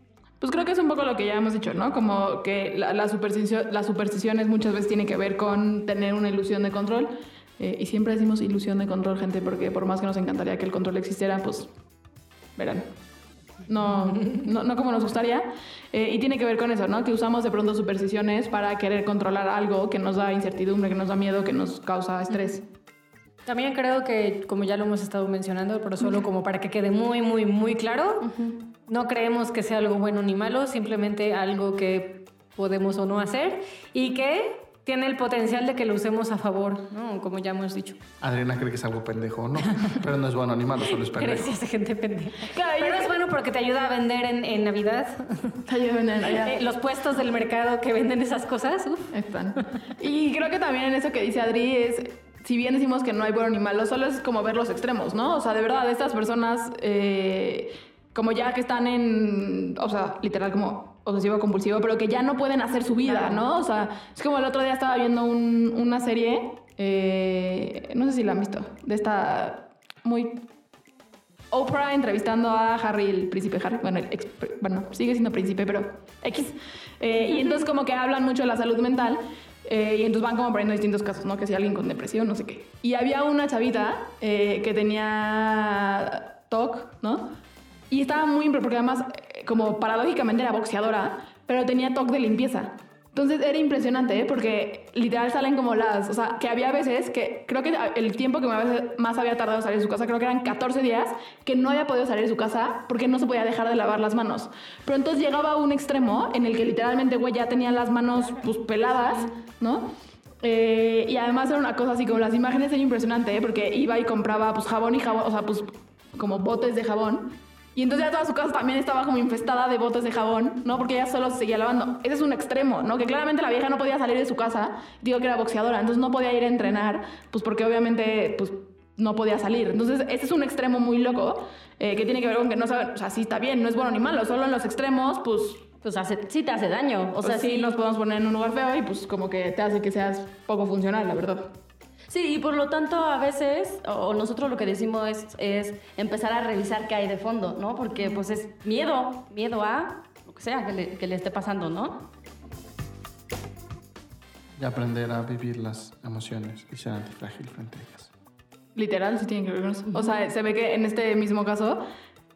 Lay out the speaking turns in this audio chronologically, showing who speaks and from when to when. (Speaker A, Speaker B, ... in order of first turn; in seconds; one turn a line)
Speaker A: 0.4-11.7
Speaker A: 12.6-12.9
Speaker A: 13.7-22.7
Speaker B: 23.5-28.3
Speaker B: 28.9-38.0
Speaker C: 38.2-41.5
Speaker B: 41.1-45.6
Speaker A: 42.5-43.2
Speaker A: 45.7-46.6
Speaker B: 46.4-49.1
Speaker A: 49.1-70.5
Speaker A: 71.5-87.4
Speaker A: 87.9-135.7
Speaker D: 135.8-137.8
Speaker A: 137.2-141.5
Speaker D: 142.1-152.0
Speaker C: 154.6-158.1
Speaker A: 158.8-161.8
Speaker D: 159.9-160.2